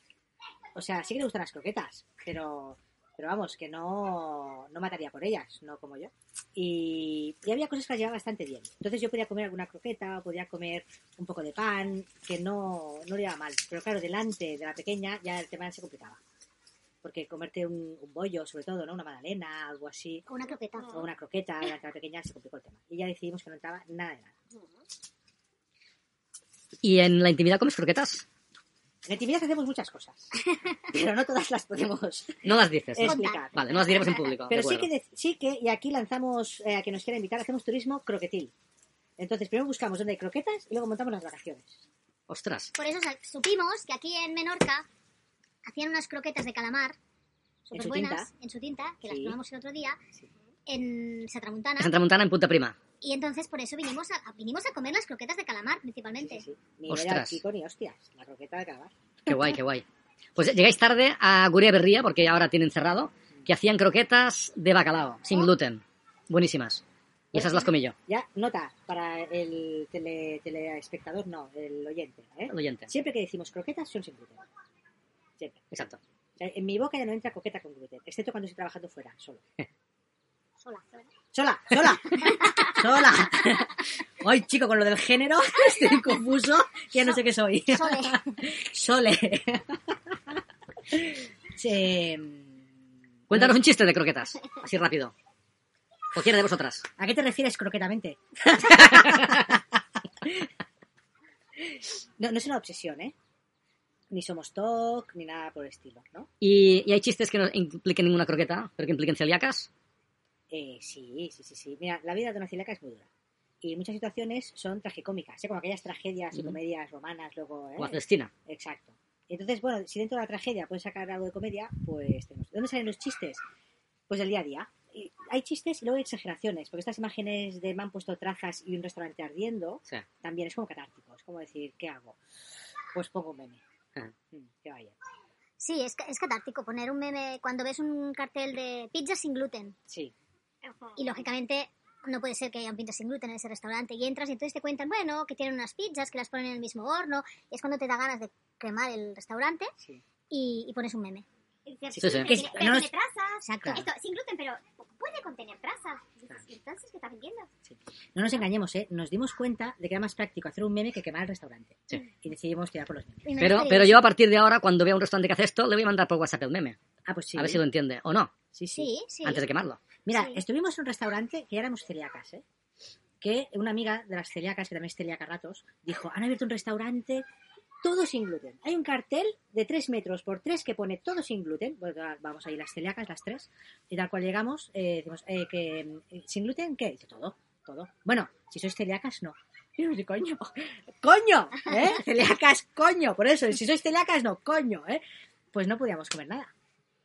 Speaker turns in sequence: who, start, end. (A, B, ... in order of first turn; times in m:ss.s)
0:00.8-0:16.2 A
0:17.0-0:20.3 A
0:20.3-0:21.0 B
0:20.9-0:24.4 A
0:26.8-0:28.2 C
0:29.0-0:38.5 A
0:32.4-0:34.9 C
0:33.0-0:33.4 B
0:39.2-0:41.9 A
0:42.3-0:42.7 C
0:42.8-0:44.9 B
0:45.6-0:47.0 B
0:47.7-0:50.0 B
0:47.7-0:48.3 A
0:49.0-0:49.4 A
0:50.7-0:51.9 B
0:51.8-0:52.8 C
0:53.0-0:56.4 B
0:56.2-0:59.6 A
0:56.9-0:57.4 C
0:59.3-0:59.8 C
1:00.4-1:08.0 C
1:07.3-1:14.4 A
1:12.5-1:12.9 C
1:15.7-1:16.0 C
1:16.4-1:19.4 A
1:20.6-1:21.1 B
1:21.3-1:32.7 A
1:27.7-1:28.3 B
1:33.3-1:35.1 C
1:33.3-1:33.6 A
1:36.1-1:36.9 C
1:37.0-1:40.5 A
1:38.6-1:39.5 C
1:41.6-1:43.2 A
1:44.1-1:46.3 A
1:46.4-1:49.7 C
1:50.5-1:53.1 A
1:53.6-2:03.4 A
1:57.8-1:58.3 C
2:04.1-2:12.2 A
2:12.9-2:13.6 A
2:14.3-2:15.0 A
2:15.6-2:19.8 B
2:19.9-2:20.1 A
2:20.6-2:21.2 D
2:21.0-2:29.7 B
2:30.3-2:31.2 B
2:31.7-2:37.5 D
2:31.9-2:32.9 A
2:32.0-2:32.4 C
2:33.4-2:33.9 B
2:33.6-2:33.9 A
2:37.7-2:43.3 A
2:43.2-2:44.0 B
2:43.4-2:46.8 C
2:47.1-2:47.6 A
2:47.4-2:48.3 C
2:48.5-2:48.9 A
2:48.8-2:49.4 B
2:49.2-2:49.8 C
2:50.0-2:52.4 A
2:53.2-2:57.2 A
2:57.8-3:15.0 A
3:15.5-3:16.5 A